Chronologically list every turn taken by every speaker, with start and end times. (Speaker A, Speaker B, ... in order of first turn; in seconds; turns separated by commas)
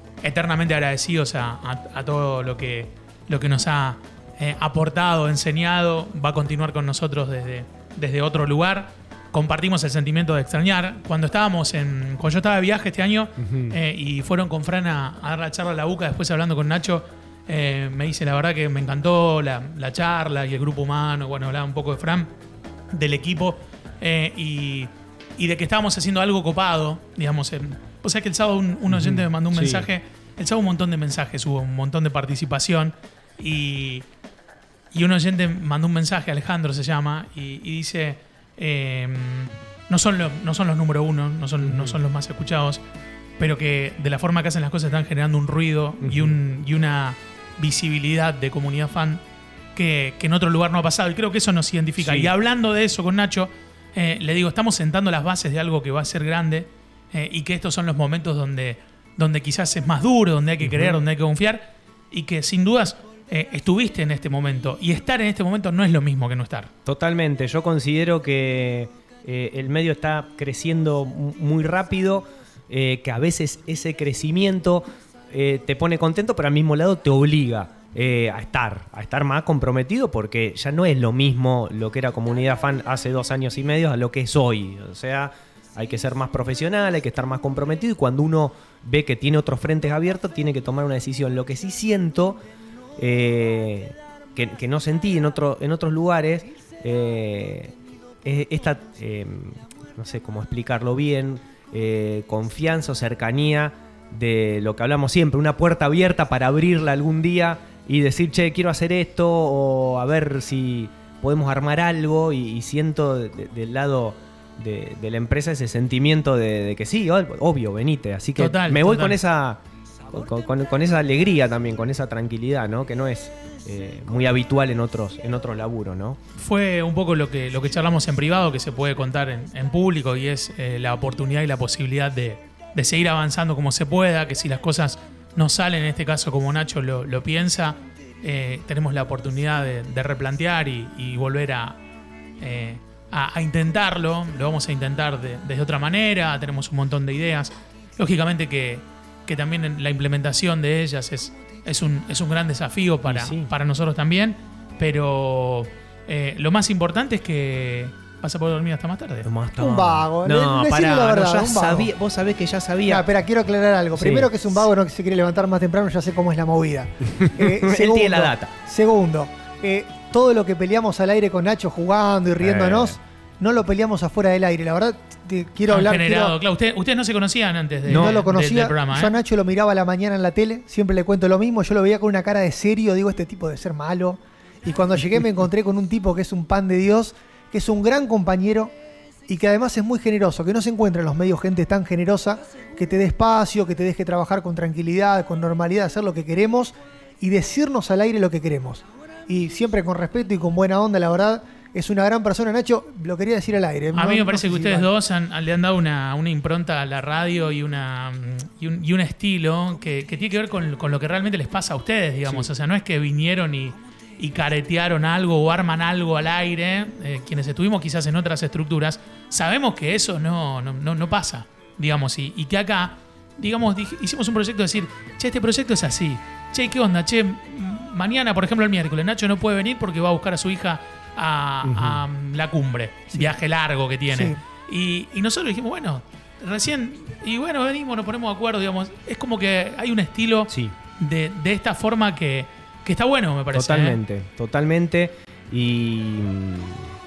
Speaker A: 0.2-22.3, Speaker B: 13.4-13.8, Speaker A: 22.9-34.0, Speaker B: 28.9-29.9, Speaker A: 34.9-42.8, Speaker B: 41.6-42.0, Speaker A: 43.4-49.2, Speaker B: 46.0-46.4, Speaker A: 49.8-66.7, Speaker B: 52.0-52.3, Speaker B: 60.6-61.0, Speaker B: 66.8-92.4, Speaker B: 93.0-126.2, Speaker A: 118.4-119.2, Speaker A: 126.4-141.8, Speaker A: 142.4-159.3, Speaker B: 153.1-153.5, Speaker B: 159.2-163.1, Speaker C: 159.6-161.9, Speaker C: 162.9-176.4, Speaker B: 163.9-164.3, Speaker B: 167.2-168.5, Speaker B: 172.4-173.0, Speaker A: 175.7-179.2, Speaker B: 177.9-178.2, Speaker C: 177.9-188.7, Speaker C: 189.3-204.9, Speaker A: 203.9-244.0, Speaker B: 212.3-212.5, Speaker B: 231.6-232.0, Speaker C: 234.1-234.4, Speaker B: 240.5-240.8, Speaker B: 243.5-246.9